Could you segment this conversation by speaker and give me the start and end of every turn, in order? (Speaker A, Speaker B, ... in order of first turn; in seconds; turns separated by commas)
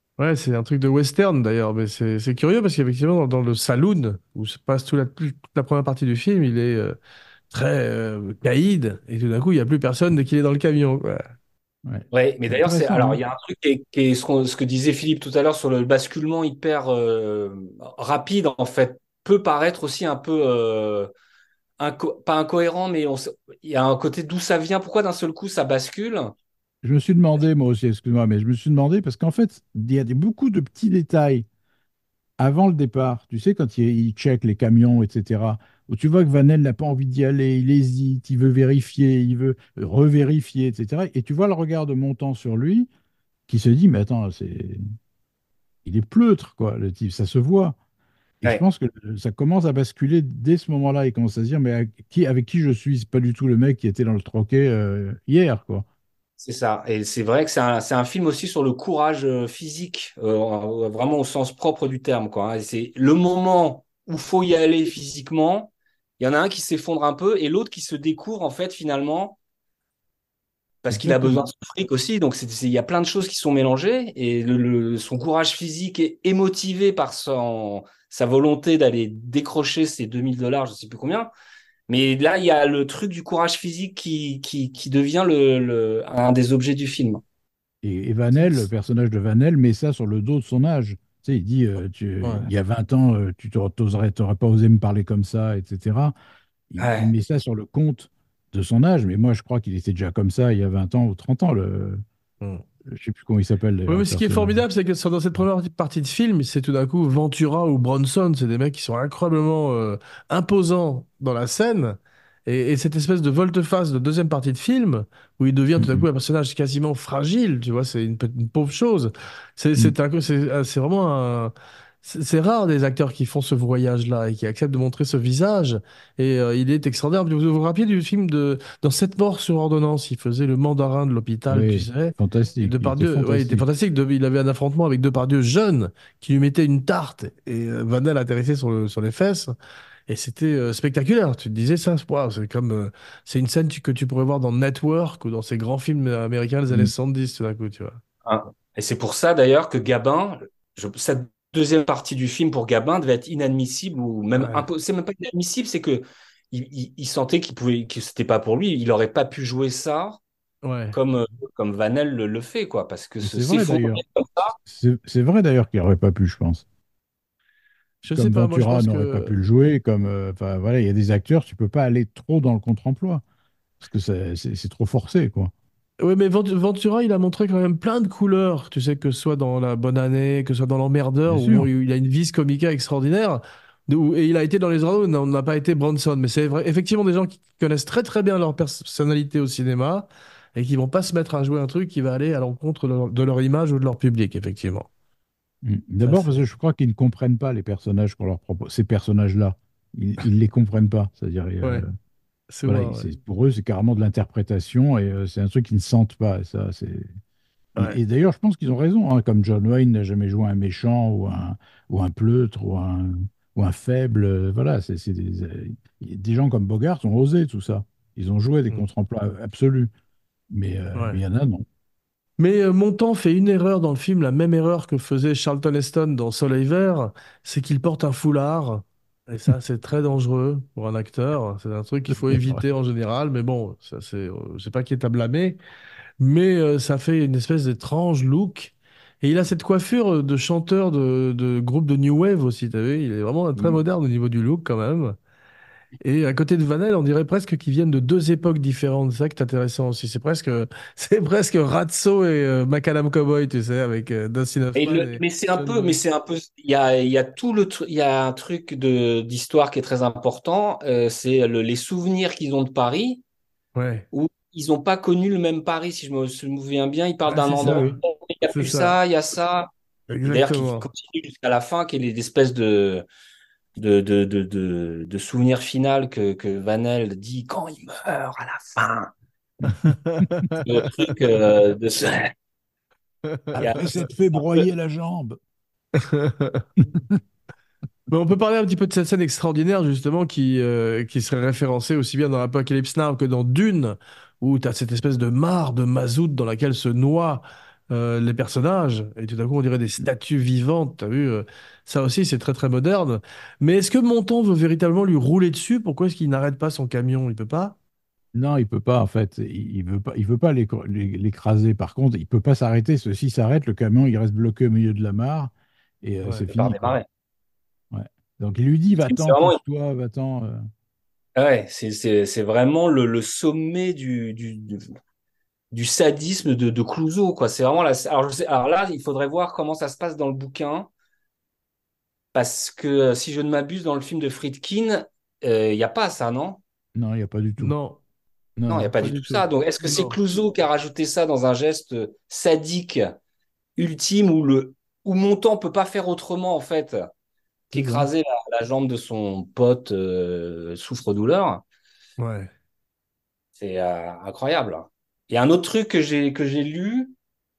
Speaker A: 0.2-7.0, Speaker A: 7.5-11.2, Speaker B: 11.9-13.2, Speaker C: 12.1-21.1, Speaker C: 21.8-26.3, Speaker B: 26.8-31.5, Speaker B: 32.4-42.9, Speaker B: 43.5-44.8, Speaker B: 45.9-47.8, Speaker B: 48.4-55.9, Speaker C: 56.4-69.4, Speaker C: 70.8-81.3, Speaker B: 70.9-71.4, Speaker C: 81.9-87.2, Speaker B: 87.8-96.2, Speaker A: 88.4-88.7, Speaker A: 92.2-92.5, Speaker B: 96.7-102.0, Speaker C: 96.8-97.1, Speaker B: 102.9-104.6, Speaker A: 103.9-139.5, Speaker B: 115.8-116.0, Speaker B: 131.5-133.6, Speaker A: 140.1-148.0, Speaker C: 148.2-160.2, Speaker A: 154.4-154.7, Speaker A: 160.6-161.0, Speaker C: 160.9-164.6, Speaker B: 163.2-164.0, Speaker B: 164.7-166.7, Speaker A: 168.0-169.3, Speaker B: 168.1-173.2, Speaker B: 173.8-175.5, Speaker A: 176.0-194.9, Speaker B: 181.3-181.7, Speaker B: 195.6-201.9, Speaker A: 196.0-196.4, Speaker A: 202.5-203.1, Speaker B: 202.7-207.1, Speaker B: 207.8-219.9, Speaker B: 220.5-221.7, Speaker A: 222.4-235.6, Speaker B: 232.1-232.6, Speaker A: 236.2-245.2, Speaker B: 243.6-243.8, Speaker A: 246.0-256.0, Speaker C: 254.8-263.2, Speaker A: 263.8-264.1, Speaker C: 264.1-269.7, Speaker A: 267.3-267.9, Speaker B: 267.6-267.9, Speaker A: 268.5-269.0, Speaker A: 270.1-270.9, Speaker C: 270.2-273.1, Speaker C: 273.8-279.1, Speaker B: 279.6-280.2, Speaker A: 279.7-280.9, Speaker C: 280.6-282.3, Speaker B: 283.6-285.4, Speaker C: 283.6-284.4, Speaker A: 285.9-286.6, Speaker B: 286.8-287.2, Speaker A: 288.1-307.8, Speaker B: 308.3-317.0, Speaker C: 316.5-317.1, Speaker B: 317.9-320.6, Speaker C: 319.1-319.6, Speaker C: 321.4-324.9, Speaker C: 325.7-330.9, Speaker C: 332.3-336.6, Speaker B: 337.0-337.7, Speaker A: 337.6-338.0, Speaker B: 338.6-338.9, Speaker C: 338.7-343.1, Speaker A: 339.0-340.2, Speaker C: 343.8-347.1, Speaker C: 347.7-351.6, Speaker A: 352.2-352.5, Speaker C: 353.6-357.1